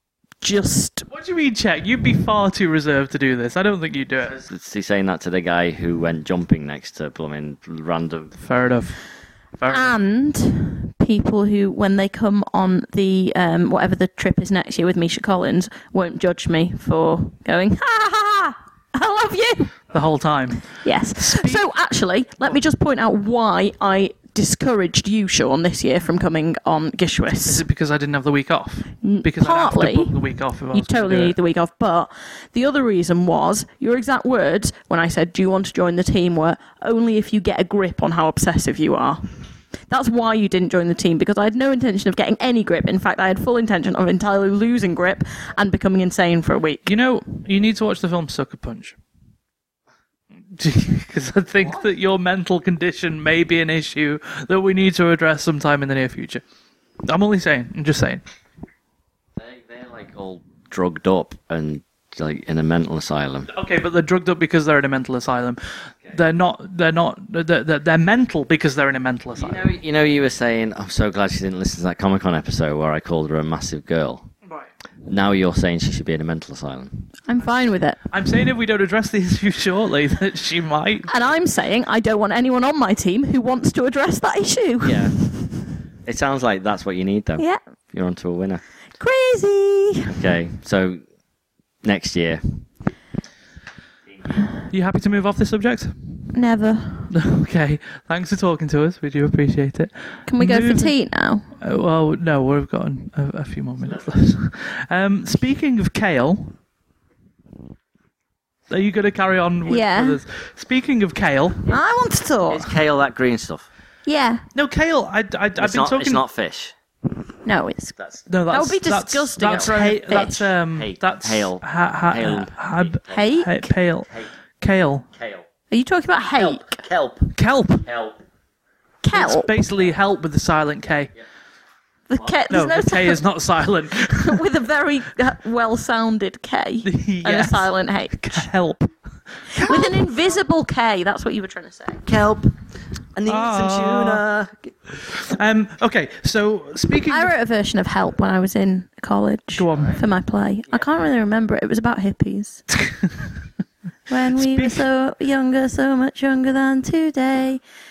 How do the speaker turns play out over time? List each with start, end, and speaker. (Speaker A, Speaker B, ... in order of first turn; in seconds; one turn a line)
Speaker A: 0.4-1.1
Speaker B: 1.1-4.4
Speaker C: 4.3-8.3
Speaker B: 8.4-9.9
Speaker A: 9.7-19.7
Speaker B: 19.9-21.6
Speaker A: 20.8-27.6
Speaker B: 27.4-31.3
Speaker A: 29.0-30.1
Speaker A: 30.7-39.3
Speaker A: 39.9-46.9
Speaker B: 46.9-49.0
Speaker B: 50.5-56.4
Speaker B: 57.0-58.2
Speaker C: 59.4-63.5
Speaker B: 63.5-69.8
Speaker C: 69.3-74.3
Speaker C: 75.0-77.1
Speaker A: 77.3-78.0
Speaker B: 77.4-81.1
Speaker A: 81.1-85.5
Speaker C: 84.8-85.2
Speaker C: 86.0-88.6
Speaker A: 89.0-90.1
Speaker C: 90.1-91.0
Speaker C: 91.8-92.7
Speaker B: 94.7-96.3
Speaker A: 96.3-97.1
Speaker B: 97.1-100.9
Speaker A: 100.3-101.5
Speaker B: 101.6-106.5
Speaker B: 108.7-111.7
Speaker A: 109.7-110.2
Speaker A: 111.7-112.7
Speaker C: 112.5-113.7
Speaker A: 114.0-114.4
Speaker B: 114.5-116.2
Speaker C: 115.5-116.7
Speaker A: 117.4-118.0
Speaker C: 118.0-118.2
Speaker B: 118.3-125.1
Speaker A: 118.5-120.5
Speaker C: 120.7-123.3
Speaker A: 123.1-123.7
Speaker C: 125.2-125.5
Speaker A: 125.7-126.8
Speaker C: 126.3-128.2
Speaker B: 127.3-127.9
Speaker A: 129.0-129.5
Speaker B: 129.1-131.1
Speaker A: 132.1-133.2
Speaker B: 132.5-134.4
Speaker A: 134.1-138.4
Speaker B: 136.8-138.9
Speaker B: 139.4-140.1
Speaker A: 139.6-142.1
Speaker C: 142.1-142.6
Speaker C: 143.1-144.7
Speaker B: 143.2-144.2
Speaker B: 144.9-147.3
Speaker A: 147.1-152.6
Speaker B: 149.5-150.0
Speaker C: 149.7-150.0
Speaker B: 152.8-153.2
Speaker A: 154.1-157.6
Speaker B: 154.3-154.8